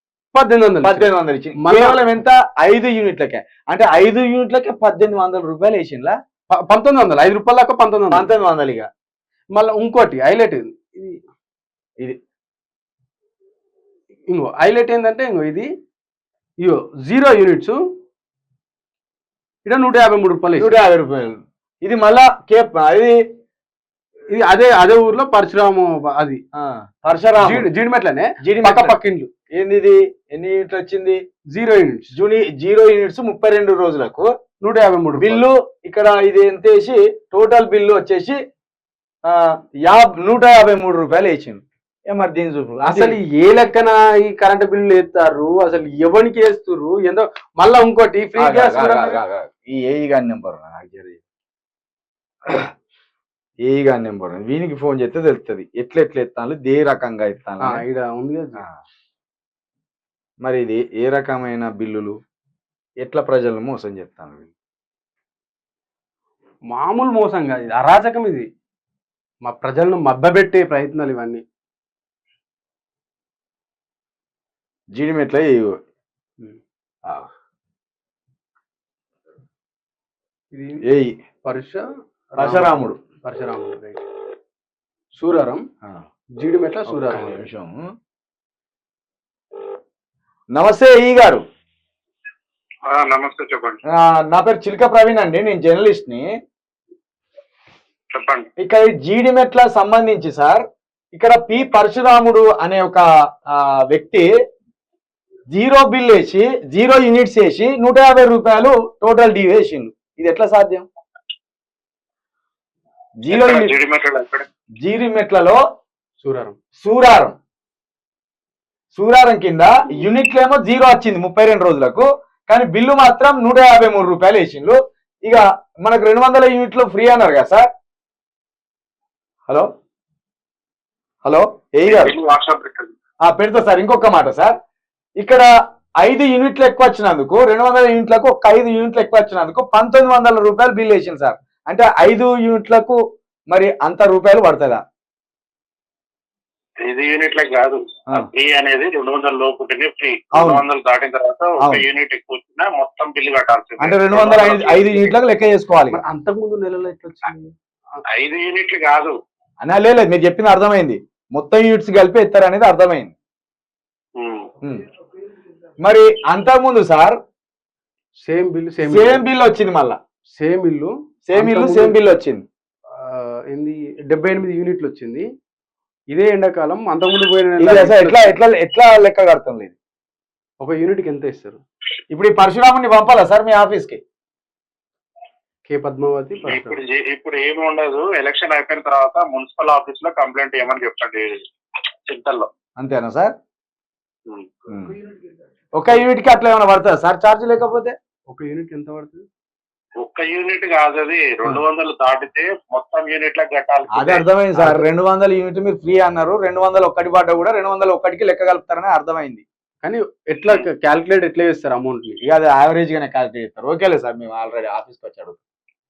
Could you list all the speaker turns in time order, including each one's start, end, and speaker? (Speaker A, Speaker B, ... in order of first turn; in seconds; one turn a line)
Speaker A: 0.3-2.0
Speaker B: 0.8-6.2
Speaker A: 6.5-8.3
Speaker B: 8.1-8.9
Speaker A: 9.5-11.2
Speaker A: 14.3-15.7
Speaker A: 16.6-17.8
Speaker A: 19.6-20.7
Speaker B: 20.6-23.2
Speaker A: 24.3-26.4
Speaker B: 26.6-27.7
Speaker A: 27.4-29.3
Speaker B: 28.4-29.0
Speaker B: 29.6-31.2
Speaker A: 31.5-32.1
Speaker B: 32.1-34.3
Speaker A: 34.6-35.4
Speaker B: 35.2-38.4
Speaker B: 39.3-43.2
Speaker A: 42.8-49.2
Speaker B: 48.4-51.2
Speaker B: 53.6-57.8
Speaker A: 57.6-58.6
Speaker B: 60.4-62.1
Speaker B: 63.0-64.5
Speaker A: 66.7-68.5
Speaker A: 69.4-71.4
Speaker B: 74.9-75.8
Speaker A: 80.5-80.8
Speaker B: 80.9-81.2
Speaker A: 81.4-84.0
Speaker B: 82.4-83.0
Speaker A: 85.1-85.6
Speaker A: 86.4-87.4
Speaker B: 86.9-87.9
Speaker B: 90.5-91.4
Speaker C: 92.9-93.8
Speaker B: 93.9-96.3
Speaker C: 98.1-98.5
Speaker B: 98.6-104.3
Speaker B: 105.5-110.9
Speaker B: 113.2-113.7
Speaker C: 113.3-114.5
Speaker B: 114.8-115.6
Speaker A: 116.2-116.6
Speaker B: 116.8-117.4
Speaker B: 118.9-127.7
Speaker B: 131.2-132.2
Speaker C: 131.8-132.9
Speaker B: 133.2-134.5
Speaker B: 135.2-135.5
Speaker B: 136.0-143.0
Speaker B: 143.5-144.8
Speaker C: 146.8-155.2
Speaker B: 150.3-150.7
Speaker B: 151.6-151.8
Speaker B: 153.8-156.0
Speaker A: 155.9-158.0
Speaker C: 158.1-159.2
Speaker B: 159.6-163.1
Speaker C: 164.2-164.5
Speaker B: 165.8-167.2
Speaker A: 168.2-169.2
Speaker B: 168.8-170.0
Speaker A: 170.3-172.0
Speaker B: 171.3-172.4
Speaker A: 172.9-175.3
Speaker A: 176.1-178.4
Speaker B: 177.6-179.7
Speaker A: 180.6-181.6
Speaker B: 182.1-184.0
Speaker A: 185.7-186.8
Speaker C: 186.4-191.4
Speaker C: 192.1-192.5
Speaker B: 192.8-193.3
Speaker B: 194.7-194.9
Speaker B: 195.7-198.0
Speaker A: 198.3-199.2
Speaker C: 200.0-204.2
Speaker B: 203.9-209.4
Speaker A: 204.6-204.9
Speaker A: 209.8-212.2
Speaker B: 212.2-215.4